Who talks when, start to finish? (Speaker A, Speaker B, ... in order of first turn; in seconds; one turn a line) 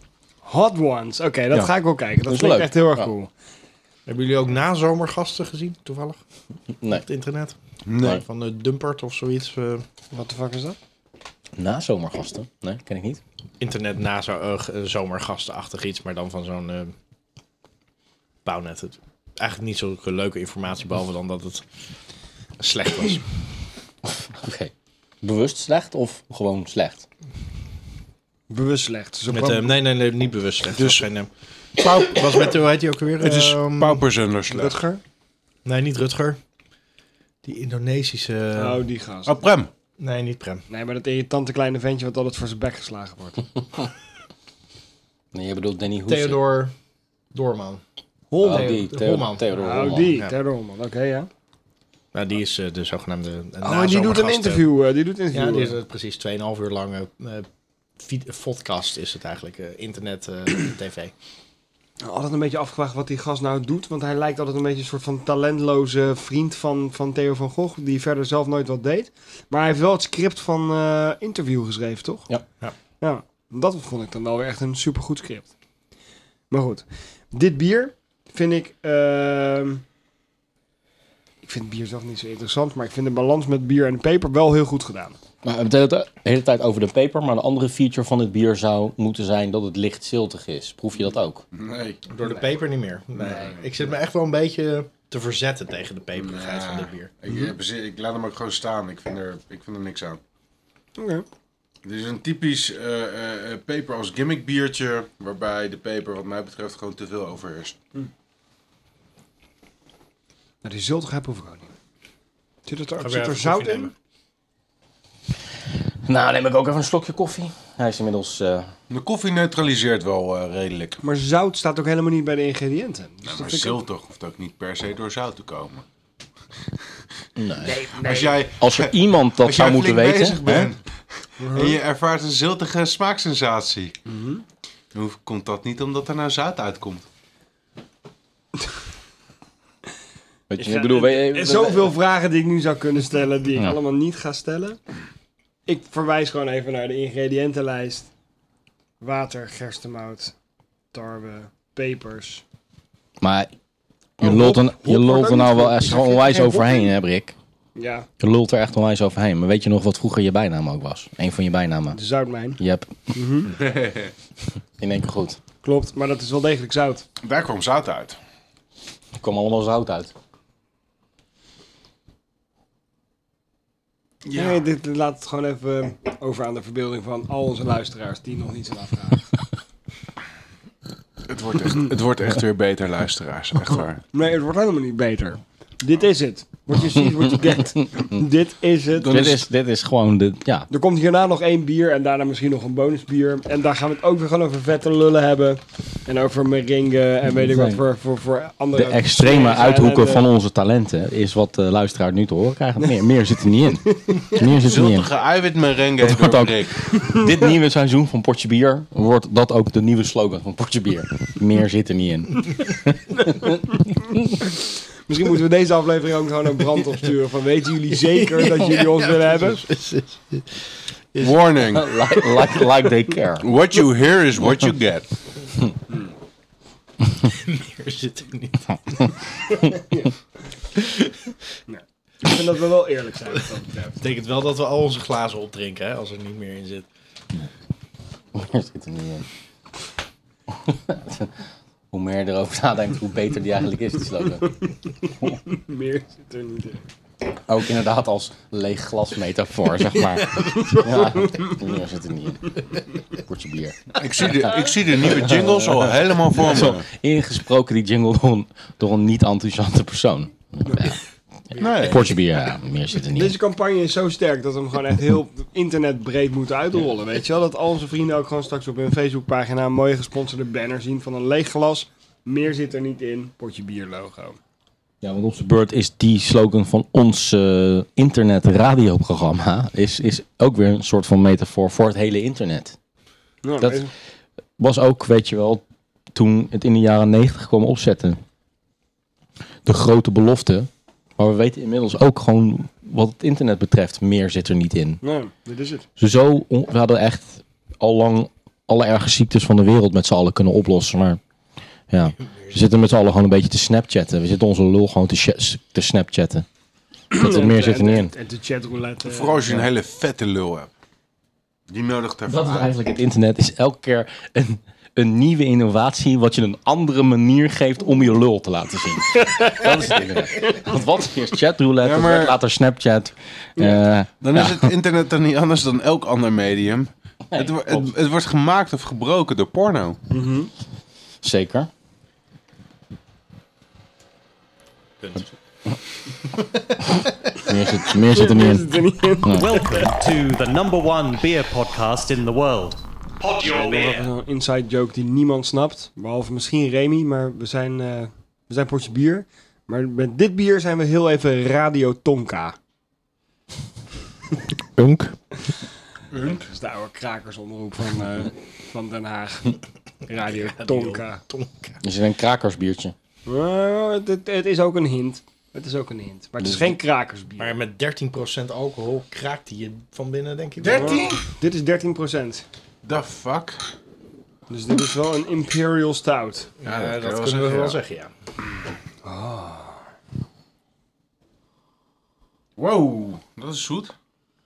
Speaker A: 0.4-3.3
Speaker B: 2.3-3.1
Speaker C: 4.1-6.2
Speaker B: 6.8-7.0
Speaker C: 6.9-9.8
Speaker D: 7.9-8.2
Speaker A: 10.1-10.8
Speaker B: 11.6-13.2
Speaker C: 13.6-16.9
Speaker C: 18.4-21.6
Speaker C: 22.6-23.3
Speaker B: 24.4-27.1
Speaker A: 28.5-29.7
Speaker C: 29.3-31.3
Speaker D: 30.8-31.0
Speaker D: 31.8-32.5
Speaker C: 31.9-34.0
Speaker D: 33.2-34.8
Speaker A: 34.5-35.0
Speaker C: 35.6-36.4
Speaker C: 37.4-38.8
Speaker A: 38.6-39.4
Speaker D: 39.3-39.7
Speaker C: 40.0-40.6
Speaker A: 40.7-43.6
Speaker B: 45.3-46.4
Speaker C: 46.1-46.7
Speaker C: 47.3-47.8
Speaker A: 48.3-48.9
Speaker C: 48.4-50.4
Speaker B: 48.4-50.2
Speaker A: 49.6-51.3
Speaker C: 52.1-54.7
Speaker A: 53.6-55.8
Speaker C: 55.3-57.5
Speaker C: 58.0-61.1
Speaker A: 62.0-72.3
Speaker A: 73.0-75.5
Speaker A: 76.5-79.8
Speaker A: 81.4-85.2
Speaker B: 85.4-91.4
Speaker D: 91.5-92.0
Speaker C: 92.1-97.1
Speaker D: 93.2-93.7
Speaker D: 96.2-100.2
Speaker A: 101.0-101.2
Speaker D: 101.8-107.8
Speaker A: 110.6-111.7
Speaker A: 112.7-113.9
Speaker C: 113.0-113.9
Speaker B: 116.0-118.7
Speaker D: 118.9-121.0
Speaker A: 121.0-123.8
Speaker D: 123.2-125.8
Speaker B: 127.4-127.8
Speaker A: 127.6-128.5
Speaker D: 128.0-133.9
Speaker B: 128.6-130.7
Speaker A: 131.4-131.8
Speaker A: 134.1-134.4
Speaker D: 134.9-137.1
Speaker B: 140.5-141.9
Speaker A: 140.6-144.8
Speaker A: 145.7-148.1
Speaker A: 149.0-150.3
Speaker A: 150.9-152.4
Speaker B: 153.2-153.5
Speaker B: 154.2-157.3
Speaker A: 154.2-156.9
Speaker A: 157.8-158.1
Speaker B: 158.2-162.0
Speaker A: 161.9-162.6
Speaker B: 162.6-162.9
Speaker A: 163.1-163.6
Speaker D: 163.6-164.1
Speaker B: 164.8-165.4
Speaker A: 165.6-167.1
Speaker D: 167.2-168.2
Speaker B: 169.2-170.1
Speaker D: 174.3-174.6
Speaker A: 174.3-179.3
Speaker D: 181.3-184.0
Speaker A: 184.1-189.2
Speaker D: 188.9-189.4
Speaker B: 189.0-190.7
Speaker A: 190.7-200.2
Speaker B: 197.2-197.8
Speaker B: 198.7-205.1
Speaker D: 204.6-206.9
Speaker B: 206.0-213.7
Speaker A: 215.1-219.6
Speaker C: 218.0-220.6
Speaker C: 221.1-221.4
Speaker D: 221.2-222.2
Speaker B: 221.6-223.5
Speaker D: 223.4-225.1
Speaker C: 227.2-229.2
Speaker A: 229.7-230.1
Speaker C: 230.8-231.3
Speaker A: 231.7-234.0
Speaker C: 234.0-236.9
Speaker B: 238.3-239.2
Speaker B: 240.5-241.4
Speaker B: 241.9-244.6
Speaker A: 244.6-246.8
Speaker B: 247.4-254.0
Speaker A: 250.5-251.6
Speaker D: 254.0-256.9
Speaker B: 255.5-261.0
Speaker A: 260.7-260.9
Speaker C: 261.5-261.9
Speaker D: 261.6-262.1
Speaker B: 261.8-263.4
Speaker A: 263.1-274.4
Speaker B: 275.0-282.8
Speaker A: 283.4-283.9
Speaker B: 283.6-283.9
Speaker B: 284.6-288.2
Speaker B: 289.6-295.0
Speaker A: 295.0-295.9
Speaker B: 296.0-301.2
Speaker B: 301.9-306.4
Speaker A: 307.1-309.6
Speaker B: 307.1-308.1
Speaker D: 309.0-310.7
Speaker D: 311.7-312.7
Speaker B: 312.3-324.7
Speaker A: 319.2-319.8
Speaker A: 320.5-320.7
Speaker D: 321.8-322.4
Speaker D: 324.2-330.0
Speaker B: 327.3-327.9
Speaker A: 330.1-330.5
Speaker B: 331.2-331.7
Speaker C: 336.4-337.1
Speaker B: 337.0-338.7
Speaker A: 338.0-339.8
Speaker B: 339.2-339.5
Speaker E: 339.3-344.1
Speaker A: 343.4-352.6
Speaker B: 354.8-355.1
Speaker D: 356.1-356.5
Speaker A: 356.2-359.6
Speaker A: 360.1-361.2
Speaker C: 360.1-361.8
Speaker B: 361.8-362.9
Speaker A: 363.3-367.5
Speaker B: 366.4-366.7
Speaker C: 367.4-371.1
Speaker D: 370.6-371.2
Speaker A: 370.7-372.4
Speaker D: 372.8-373.6
Speaker A: 374.5-376.5
Speaker C: 376.6-378.1
Speaker D: 376.6-377.8
Speaker A: 379.0-379.8
Speaker D: 382.6-383.9